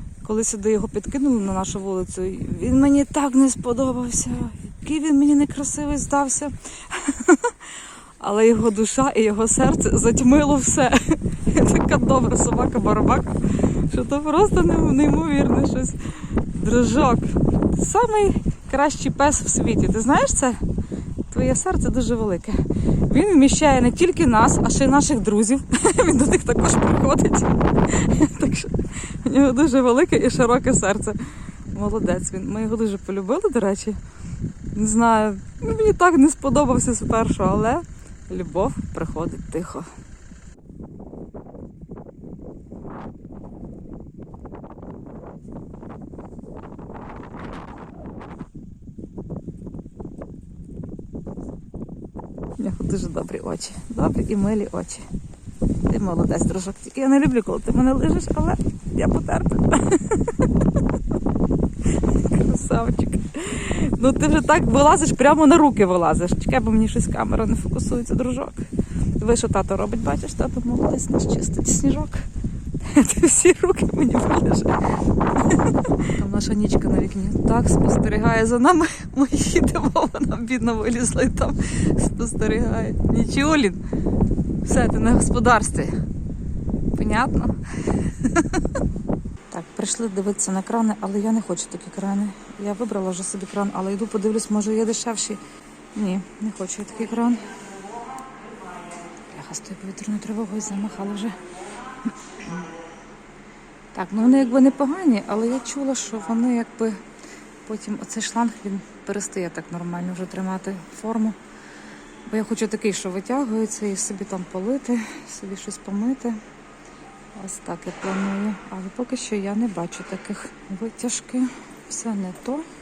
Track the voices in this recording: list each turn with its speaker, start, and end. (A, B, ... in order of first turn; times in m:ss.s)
0:00.2-0:07.5 A
0:08.2-0:20.6 A
0:21.3-0:34.0 A
0:34.7-0:39.9 A
0:52.6-0:55.1 A
0:55.9-1:00.5 A
1:02.0-1:08.7 A
1:09.2-1:12.3 A
1:12.8-1:14.8 A
1:15.4-1:23.8 A
1:24.6-1:26.0 A
1:26.9-1:28.6 A
1:29.5-1:35.4 A
1:36.0-1:37.4 A
1:39.3-1:41.4 A
1:43.9-1:47.0 A
1:47.6-1:51.4 A
1:52.3-1:56.4 A
1:57.4-2:02.6 A